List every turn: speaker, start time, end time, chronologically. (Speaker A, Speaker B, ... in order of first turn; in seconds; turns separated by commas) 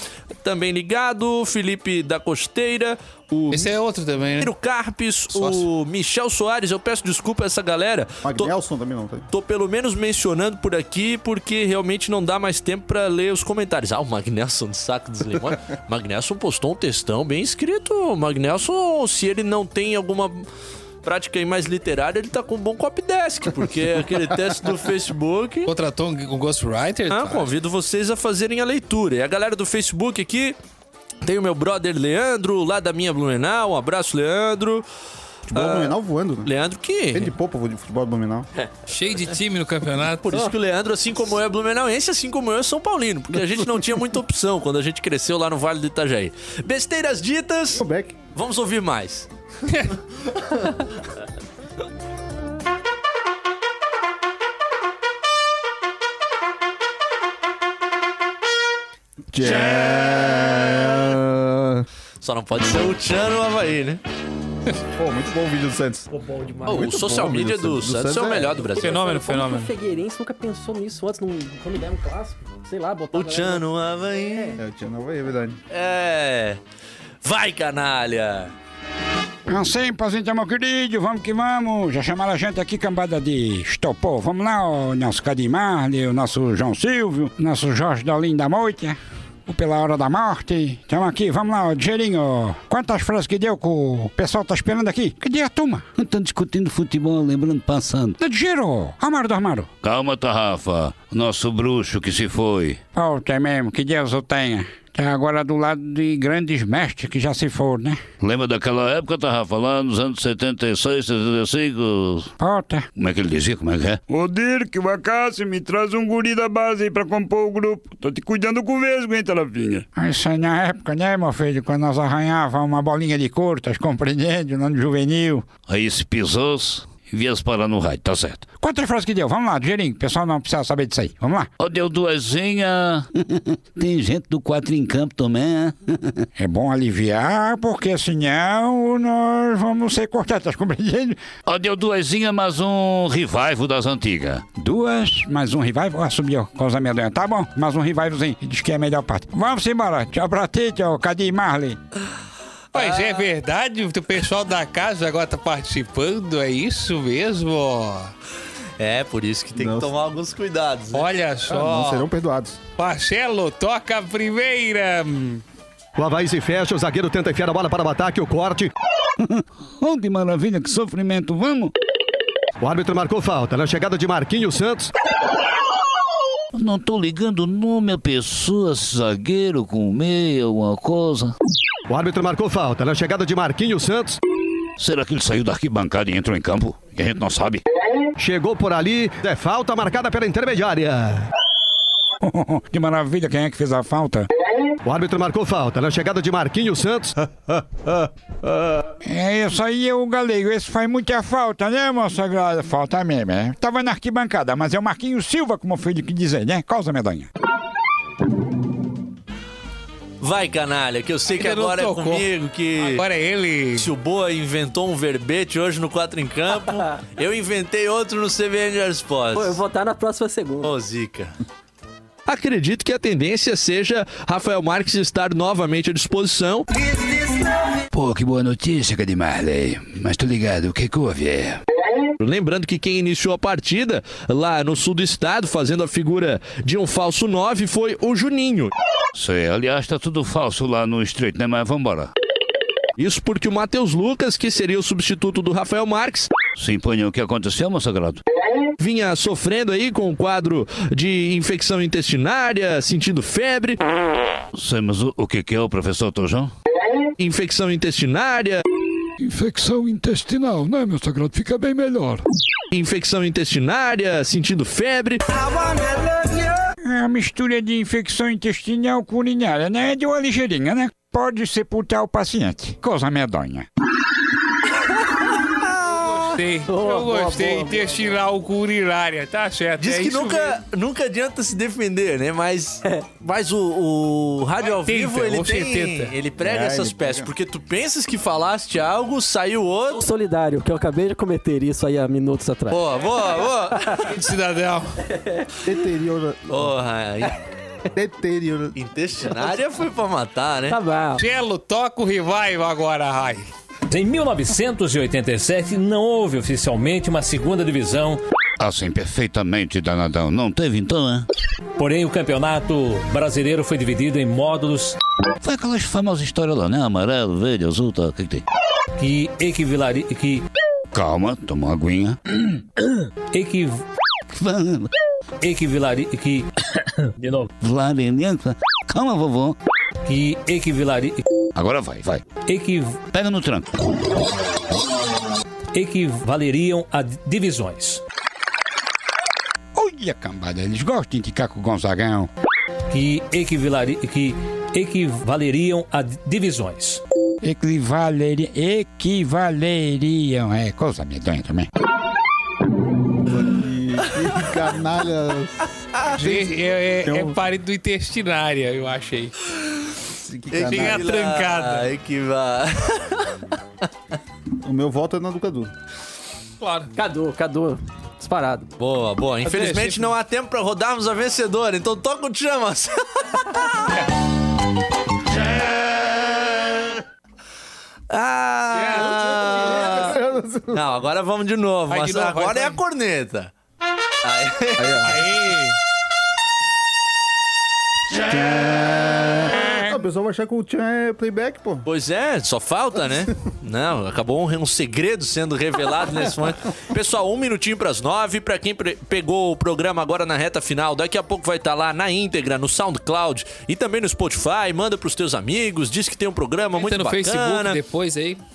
Speaker A: 0.4-3.7, Speaker B: 3.5-4.5, Speaker A: 4.4-8.5, Speaker B: 5.3-5.7, Speaker C: 8.2-9.3, Speaker A: 9.3-20.4, Speaker A: 21.0-25.7, Speaker B: 25.7-27.5, Speaker A: 27.1-30.6, Speaker A: 31.2-34.8, Speaker C: 35.5-36.5, Speaker A: 35.5-37.3, Speaker C: 37.1-38.5, Speaker B: 38.9-40.5, Speaker A: 40.2-49.3, Speaker C: 43.3-43.8, Speaker C: 47.8-48.2, Speaker C: 59.3-61.9, Speaker A: 62.2-64.0, Speaker C: 64.9-66.1, Speaker C: 66.6-68.7, Speaker A: 66.7-69.0, Speaker D: 68.8-74.6, Speaker B: 68.8-69.7, Speaker A: 73.1-74.6, Speaker C: 74.6-75.6, Speaker A: 75.7-76.6, Speaker A: 77.2-78.5, Speaker E: 79.5-95.8, Speaker F: 95.9-98.2, Speaker E: 98.2-99.7, Speaker F: 99.8-102.8, Speaker E: 102.9-108.0, Speaker F: 108.2-112.3, Speaker E: 112.4-112.9, Speaker F: 112.9-114.0, Speaker E: 114.1-125.4, Speaker F: 125.7-128.5, Speaker E: 128.5-131.5, Speaker F: 131.6-136.2, Speaker E: 136.3-141.2, Speaker F: 141.4-144.5, Speaker E: 144.5-151.8, Speaker A: 152.7-153.3, Speaker B: 152.7-158.1, Speaker A: 158.8-161.1, Speaker C: 159.6-159.9, Speaker B: 160.9-162.1, Speaker C: 161.5-162.6, Speaker B: 162.8-165.4, Speaker G: 165.9-168.7, Speaker F: 169.2-171.7, Speaker G: 172.6-174.9, Speaker F: 176.5-181.3, Speaker G: 181.9-184.2, Speaker F: 184.8-187.6, Speaker G: 188.2-191.2, Speaker E: 192.2-194.3, Speaker G: 194.8-197.9, Speaker G: 198.4-198.7, Speaker E: 199.0-207.3, Speaker A: 210.2-213.0, Speaker B: 211.3-213.9, Speaker A: 213.7-219.6, Speaker D: 219.3-220.7, Speaker A: 220.6-221.4, Speaker A: 222.3-226.7, Speaker F: 227.9-231.6, Speaker A: 232.2-238.7, Speaker F: 239.1-242.1, Speaker A: 243.0-246.3, Speaker F: 246.5-248.2, Speaker A: 248.8-253.8, Speaker F: 254.5-256.5, Speaker A: 257.2-258.6, Speaker E: 259.2-262.2, Speaker F: 259.3-260.4, Speaker A: 262.7-265.5, Speaker E: 266.9-273.6, Speaker A: 275.5-276.4, Speaker B: 276.3-280.6, Speaker D: 276.7-277.7, Speaker C: 277.5-278.0, Speaker A: 279.8-290.0, Speaker B: 284.6-286.1, Speaker C: 286.4-287.3, Speaker D: 289.9-292.8, Speaker A: 292.7-294.1, Speaker B: 294.0-295.0, Speaker D: 295.1-295.5, Speaker C: 295.6-296.8, Speaker A: 296.5-297.4, Speaker C: 297.9-298.8, Speaker A: 298.7-300.8, Speaker D: 300.7-301.2, Speaker B: 301.2-303.5, Speaker H: 303.9-308.2, Speaker F: 308.6-311.2, Speaker H: 311.8-314.9, Speaker F: 315.4-318.4, Speaker H: 319.0-320.4, Speaker F: 320.9-322.2, Speaker H: 323.3-323.8, Speaker F: 324.3-324.9, Speaker H: 325.4-327.5, Speaker F: 327.6-329.6, Speaker H: 330.1-331.2, Speaker F: 331.5-332.2, Speaker H: 332.5-333.0, Speaker F: 333.1-333.9, Speaker H: 335.7-338.0, Speaker E: 339.7-342.3, Speaker H: 342.9-347.0, Speaker E: 347.4-351.7, Speaker C: 353.2-357.4, Speaker B: 356.1-359.3, Speaker A: 359.6-359.9, Speaker C: 360.1-361.1, Speaker A: 360.5-363.4, Speaker B: 360.6-361.9, Speaker C: 364.6-365.7, Speaker B: 366.6-366.9, Speaker D: 366.9-368.7, Speaker A: 368.8-373.8, Speaker B: 369.4-370.1, Speaker A: 375.3-376.9, Speaker A: 378.1-380.1, Speaker B: 378.7-379.2, Speaker C: 378.9-380.8, Speaker A: 380.7-383.5, Speaker B: 381.9-382.8, Speaker A: 384.2-385.3, Speaker C: 384.8-385.3, Speaker B: 385.0-385.7, Speaker C: 388.1-391.8, Speaker A: 391.8-407.8, Speaker B: 406.7-408.4